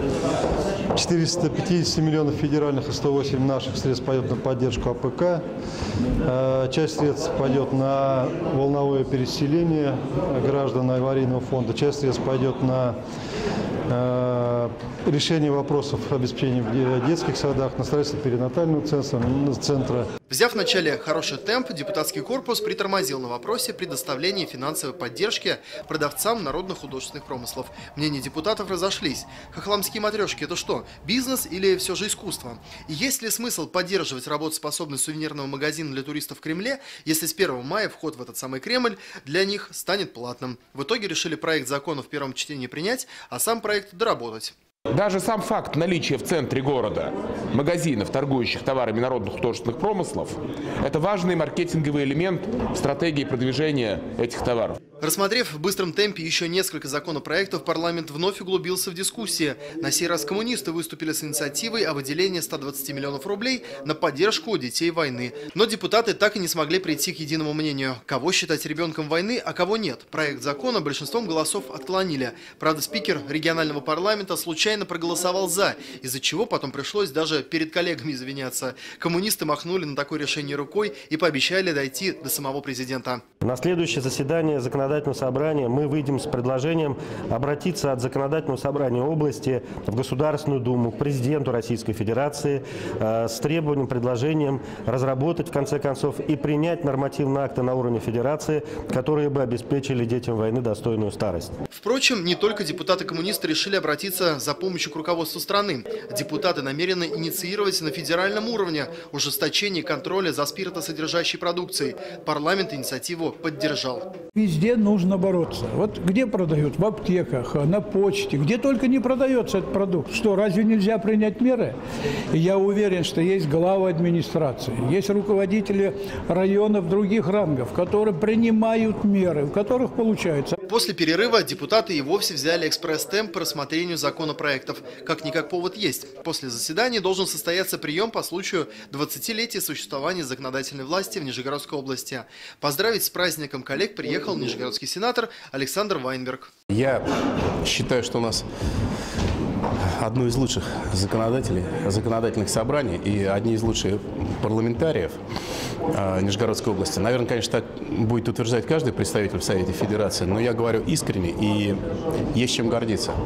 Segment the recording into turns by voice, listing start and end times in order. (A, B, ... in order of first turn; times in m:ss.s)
0:00.9-0:05.4 A
0:06.2-0:13.0 A
0:13.9-0:20.1 A
0:20.3-0:44.6 B
0:44.9-0:54.8 C
0:55.0-1:23.2 B
1:23.4-1:41.5 D
1:41.7-1:54.1 B
1:54.4-2:01.8 E
2:02.3-2:10.6 E
2:10.6-2:26.5 B
2:26.7-2:27.1 F
2:27.6-2:28.4 F
2:29.8-2:35.2 F
2:35.9-2:41.8 F
2:42.3-2:43.2 F